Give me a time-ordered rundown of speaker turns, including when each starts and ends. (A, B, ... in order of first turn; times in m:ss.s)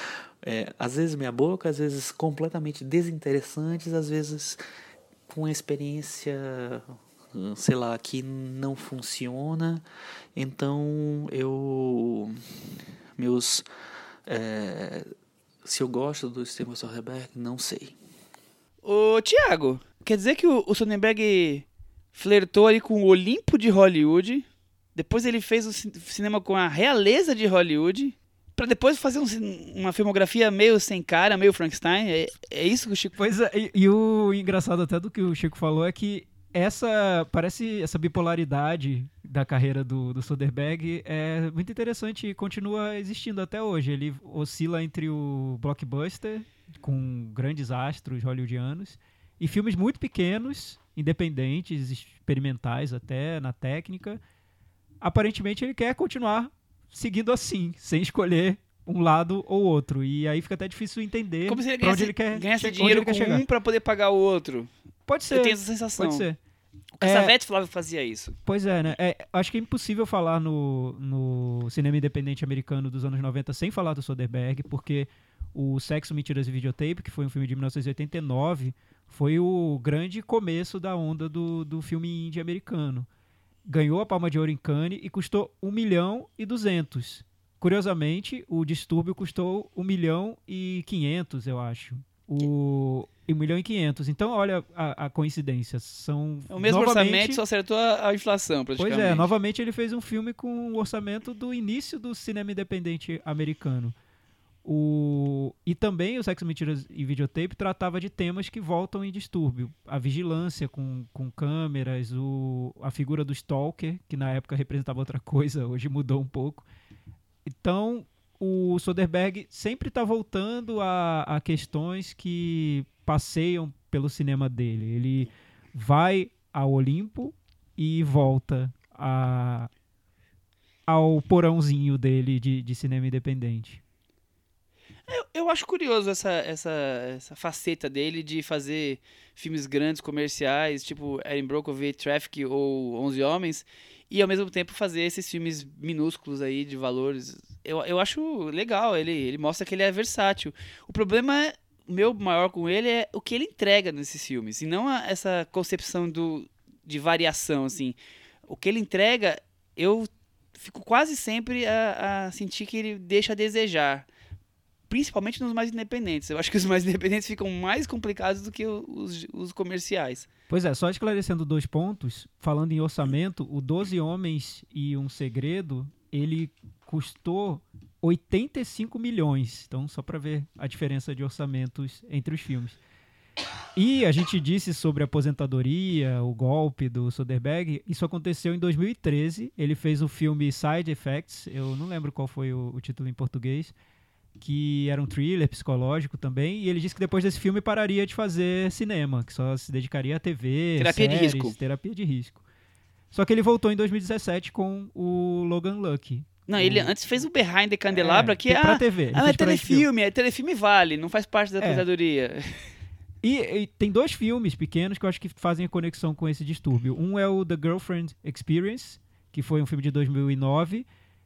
0:00.4-0:04.6 A
0:05.3-0:09.8 A
0:10.4-0:12.4 A
0:13.2-0:13.6 A
0:14.3-0:15.1 A
0:15.6-0:18.0 A
0:18.8-0:33.1 B
0:33.2-0:54.2 C
0:55.0-1:03.4 C
1:01.5-1:04.7 B
1:05.1-1:06.4 C
1:05.3-1:06.3 B
1:07.0-1:08.4 B
1:07.0-1:07.3 C
1:08.5-1:23.1 C
1:23.7-1:37.4 C
1:36.5-1:39.3 B
1:38.8-1:44.0 C
1:44.6-1:56.6 C
1:57.5-2:09.7 C
2:10.9-2:13.8 C
2:15.1-2:38.0 B
2:38.5-2:44.1 B
2:44.9-2:50.3 B
2:50.5-3:02.8 C
3:03.8-3:13.7 C
3:14.4-3:22.4 C
3:20.8-3:21.5 B
3:23.1-3:26.9 C
3:26.5-3:32.7 B
3:27.9-3:29.9 C
3:31.6-3:31.8 C
3:33.2-3:40.9 C